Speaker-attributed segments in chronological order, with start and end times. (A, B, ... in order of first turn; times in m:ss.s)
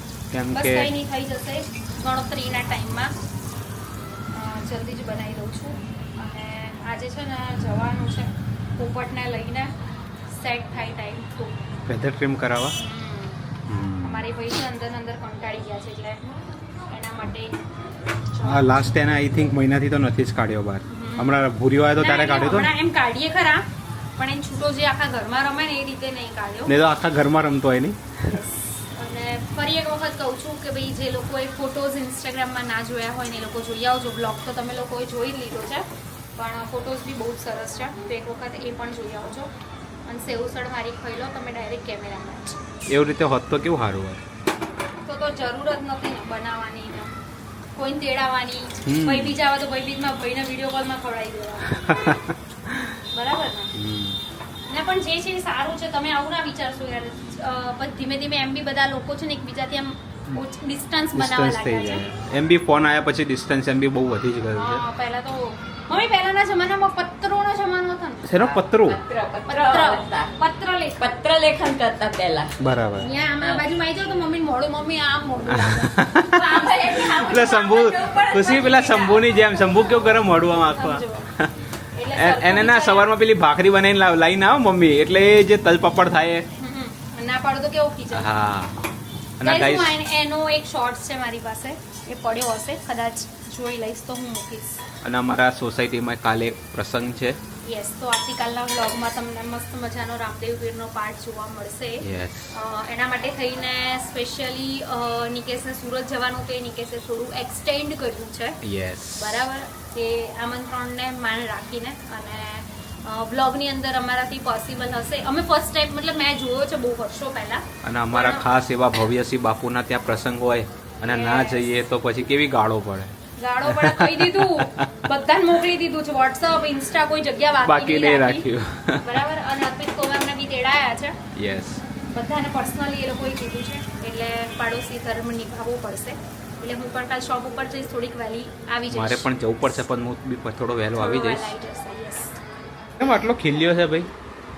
0:00.3-0:00.9 A
0:00.5-0:03.1 B
0:04.3-0:09.7 B
0:10.2-0:11.7 B
0:11.9-0:12.7 A
0:12.8-0:13.4 B
0:13.7-0:14.2 A
0:14.0-0:16.2 B
0:16.9-0:17.5 B
0:18.3-0:18.7 B
0:18.4-0:22.7 A
0:20.9-0:21.4 B
0:22.0-0:23.6 B
0:24.2-0:26.8 B
0:26.7-0:28.4 A
0:28.3-0:39.5 B
0:40.1-0:42.6 B
0:42.9-0:44.2 A
0:45.0-0:47.1 B
0:47.7-0:52.2 B
0:48.9-0:49.4 A
0:51.8-0:53.0 A
0:53.1-0:53.7 B
0:53.8-0:54.2 A
0:54.7-1:02.0 B
1:01.1-1:04.8 A
1:04.5-1:08.4 B
1:08.3-1:09.0 A
1:08.4-1:10.3 C
1:09.5-1:11.1 B
1:11.0-1:12.6 C
1:12.6-1:13.1 A
1:13.0-1:21.3 B
1:15.5-1:21.5 A
1:16.5-1:17.4 C
1:21.9-1:23.1 B
1:22.1-1:26.4 A
1:26.6-1:28.3 B
1:28.1-1:28.8 A
1:29.4-1:30.0 A
1:29.4-1:34.8 B
1:35.0-1:37.4 A
1:37.6-1:48.6 B
1:42.0-1:42.4 A
1:48.6-1:49.4 A
1:49.1-1:58.6 B
1:57.8-2:04.9 A
2:01.0-2:01.8 B
2:03.4-2:08.5 B
2:07.6-2:09.0 A
2:09.0-2:11.2 B
2:11.4-2:11.8 A
2:12.1-2:19.2 B
2:18.9-2:21.6 A
2:20.9-2:22.4 B
2:23.0-2:24.1 A